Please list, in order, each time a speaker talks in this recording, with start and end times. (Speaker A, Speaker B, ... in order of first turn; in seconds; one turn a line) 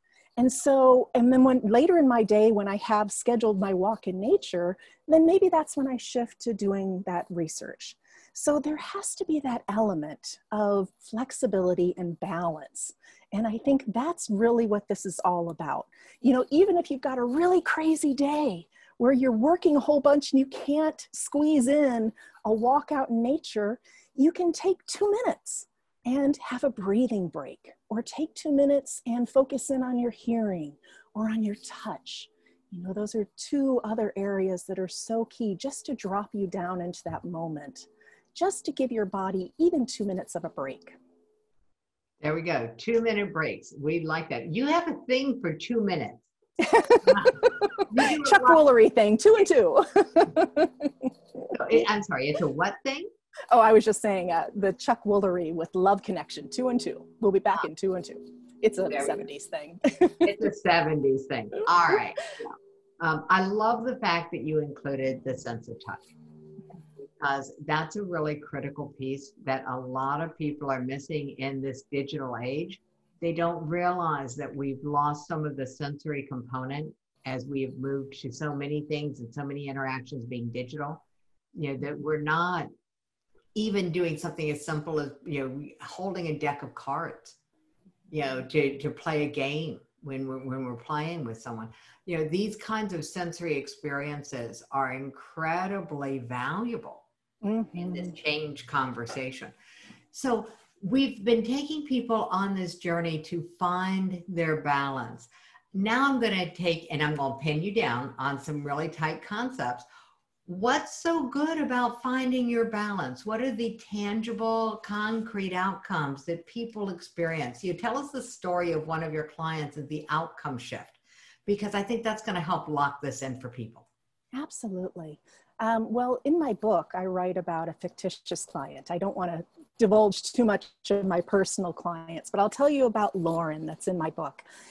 Speaker A: 0.4-41.0
Speaker B: 42.2-46.3
Speaker A: 46.6-51.1
Speaker B: 47.0-48.6
Speaker B: 51.5-53.1
Speaker A: 53.5-60.3
Speaker B: 58.9-59.2
Speaker B: 60.2-66.0
Speaker B: 67.0-82.7
Speaker B: 83.5-87.4
Speaker B: 88.1-97.0
Speaker A: 97.4-98.2
Speaker B: 97.8-99.5
Speaker B: 100.1-109.9
Speaker B: 110.5-123.9
Speaker A: 124.3-134.4